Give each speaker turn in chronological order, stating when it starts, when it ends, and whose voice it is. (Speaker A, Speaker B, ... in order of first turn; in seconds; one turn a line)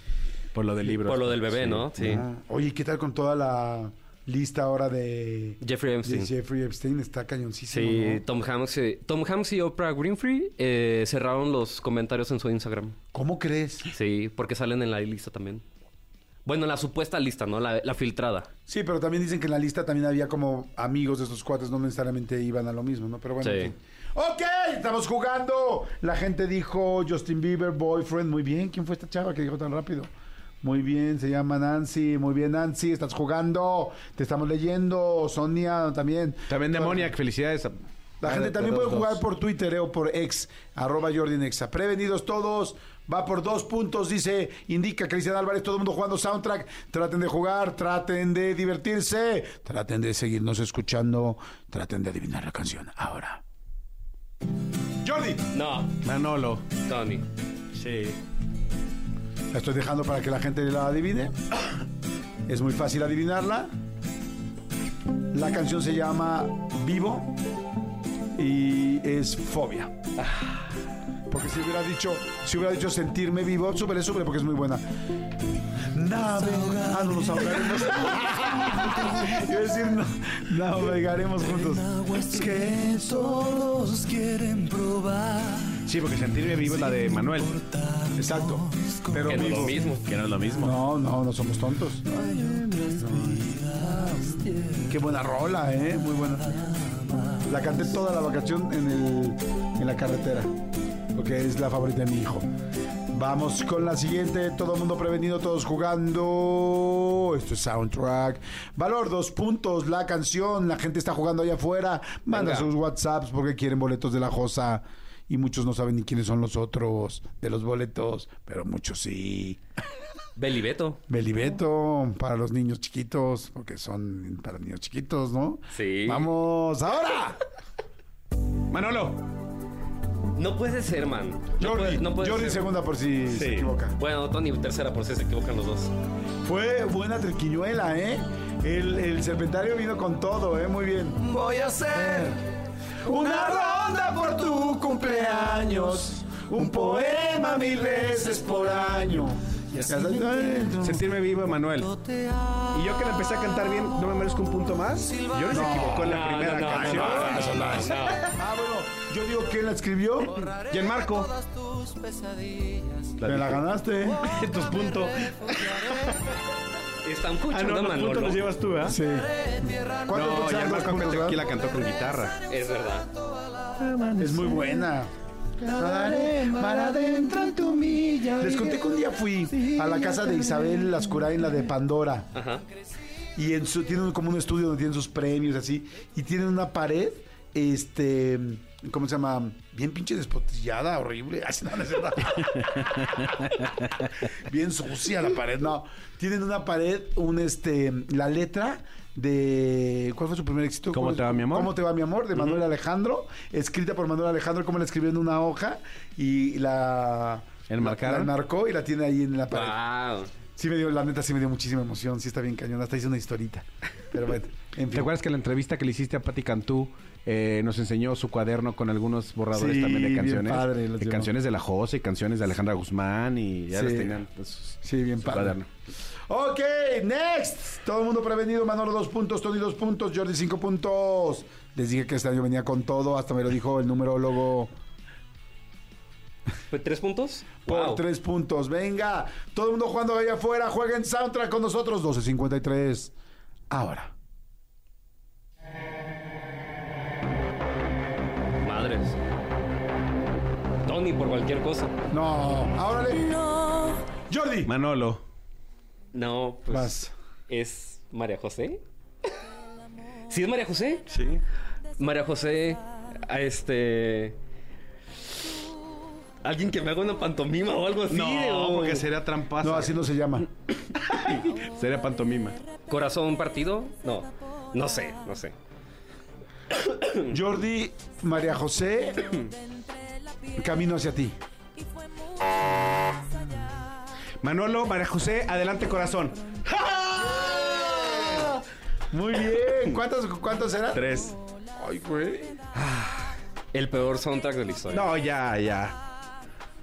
Speaker A: 0.5-1.9
Speaker B: 1.0-2.2
Speaker C: 1.9-8.2
Speaker B: 5.6-6.3
Speaker B: 7.7-12.9
Speaker C: 13.1-13.9
Speaker B: 13.9-15.6
Speaker B: 16.4-18.5
Speaker C: 18.7-30.1
Speaker B: 23.4-23.7
Speaker C: 30.6-37.1
Speaker A: 36.5-39.2
Speaker C: 38.2-53.4
Speaker C: 55.0-55.4
Speaker B: 55.5-56.0
Speaker A: 56.0-56.6
Speaker B: 56.8-57.2
Speaker A: 57.8-58.2
Speaker C: 59.5-61.3
Speaker C: 62.5-63.7
Speaker C: 65.3-67.3
Speaker C: 68.3-69.9
Speaker C: 71.3-74.8
Speaker C: 75.9-83.9
Speaker A: 77.3-77.9
Speaker D: 83.5-85.7
Speaker A: 84.3-84.7
Speaker A: 85.8-87.8
Speaker C: 88.1-89.7
Speaker A: 89.1-90.7
Speaker B: 89.3-90.1
Speaker C: 90.6-92.0
Speaker A: 92.2-94.4
Speaker C: 93.0-93.5
Speaker C: 94.8-96.7
Speaker C: 97.4-100.5
Speaker C: 101.1-102.5
Speaker C: 103.1-119.6
Speaker B: 112.3-112.7
Speaker B: 120.3-121.0
Speaker C: 121.1-127.4
Speaker B: 125.7-126.3
Speaker A: 128.7-129.2
Speaker B: 130.3-132.6
Speaker C: 131.6-134.0
Speaker A: 133.3-133.7
Speaker B: 134.0-135.9
Speaker C: 136.4-142.4
Speaker C: 143.0-151.0
Speaker A: 147.5-152.0
Speaker A: 152.7-157.7
Speaker C: 155.5-156.1
Speaker B: 156.0-158.3
Speaker C: 156.6-160.4
Speaker A: 160.4-161.3
Speaker A: 163.2-163.6
Speaker C: 163.2-164.2
Speaker A: 164.2-166.1
Speaker B: 167.0-168.4
Speaker A: 167.5-169.0
Speaker C: 168.8-171.4
Speaker A: 170.1-172.4
Speaker B: 172.5-173.1
Speaker A: 173.8-174.9
Speaker C: 174.2-175.1
Speaker A: 175.6-180.7
Speaker C: 175.7-177.7
Speaker C: 178.4-182.3
Speaker B: 182.3-182.6
Speaker C: 183.3-192.8
Speaker A: 192.7-193.9
Speaker C: 194.3-209.8
Speaker A: 200.9-201.7
Speaker A: 207.7-208.3
Speaker B: 209.5-210.3
Speaker C: 210.6-215.1
Speaker A: 214.9-225.7
Speaker C: 219.5-221.3
Speaker C: 223.7-224.2
Speaker C: 224.8-225.6
Speaker C: 226.3-234.7
Speaker B: 236.7-238.0
Speaker C: 237.7-243.1
Speaker C: 243.7-244.1
Speaker B: 248.6-249.2
Speaker B: 250.8-251.9
Speaker C: 252.1-253.5
Speaker C: 254.3-254.7
Speaker A: 254.6-255.2
Speaker B: 256.1-257.0
Speaker C: 256.7-257.1
Speaker B: 257.5-258.8
Speaker B: 260.3-261.1
Speaker A: 261.1-261.4
Speaker B: 262.0-264.4
Speaker B: 266.4-269.0
Speaker A: 268.1-270.0
Speaker C: 269.6-270.5
Speaker A: 271.0-272.6
Speaker B: 272.9-275.5
Speaker B: 276.7-277.2
Speaker C: 277.3-279.4
Speaker C: 280.5-281.4
Speaker A: 284.4-288.5
Speaker C: 287.2-288.6
Speaker C: 289.1-291.0
Speaker A: 290.9-291.4
Speaker C: 291.8-292.6
Speaker B: 293.7-295.1
Speaker A: 294.9-296.0